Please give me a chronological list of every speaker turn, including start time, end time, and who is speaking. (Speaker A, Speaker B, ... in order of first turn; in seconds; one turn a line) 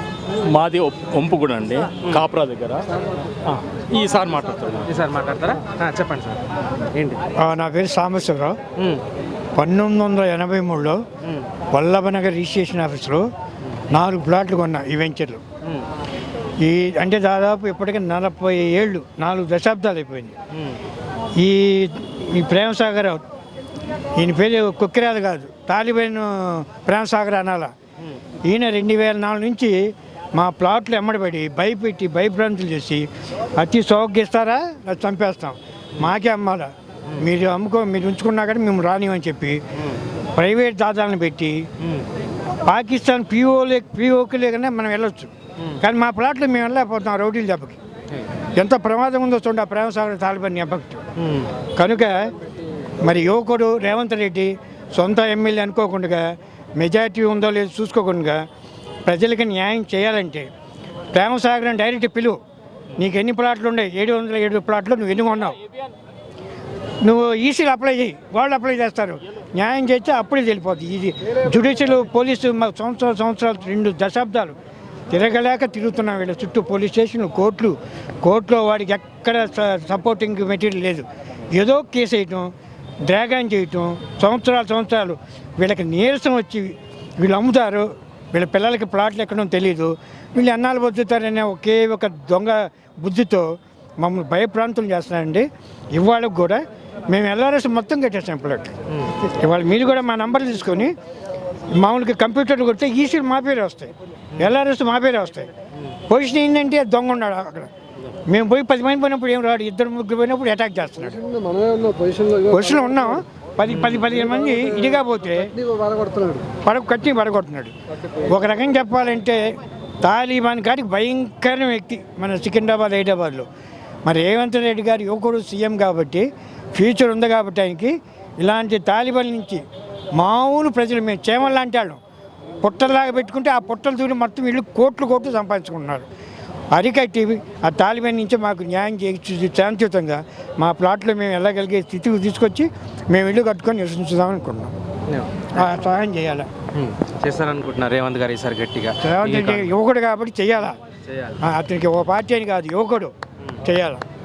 Speaker A: 0.5-2.8
Speaker A: 3.5-4.9
Speaker B: 4.9-6.4
Speaker B: 6.9-7.2
Speaker C: 7.4-8.6
Speaker B: 8.8-9.0
Speaker C: 9.6-11.0
Speaker C: 11.7-13.3
Speaker C: 13.9-15.4
Speaker C: 16.6-20.3
Speaker C: 21.4-23.2
Speaker C: 24.1-27.7
Speaker C: 28.4-39.6
Speaker C: 40.3-41.7
Speaker C: 42.6-47.8
Speaker C: 48.5-51.0
Speaker B: 51.2-51.5
Speaker C: 51.7-52.3
Speaker C: 53.0-58.4
Speaker C: 59.0-60.5
Speaker C: 61.1-62.4
Speaker C: 63.0-65.6
Speaker C: 67.0-74.6
Speaker C: 75.1-82.5
Speaker C: 83.0-101.0
Speaker C: 101.8-105.5
Speaker C: 106.1-107.7
Speaker C: 108.3-111.3
Speaker C: 112.3-115.6
Speaker B: 113.7-114.0
Speaker C: 116.5-123.5
Speaker C: 124.0-129.6
Speaker C: 130.2-132.0
Speaker C: 132.6-136.1
Speaker C: 136.7-144.7
Speaker B: 145.1-145.5
Speaker C: 145.5-146.5
Speaker B: 146.7-149.8
Speaker C: 149.0-150.8
Speaker B: 151.1-151.4
Speaker C: 151.4-154.0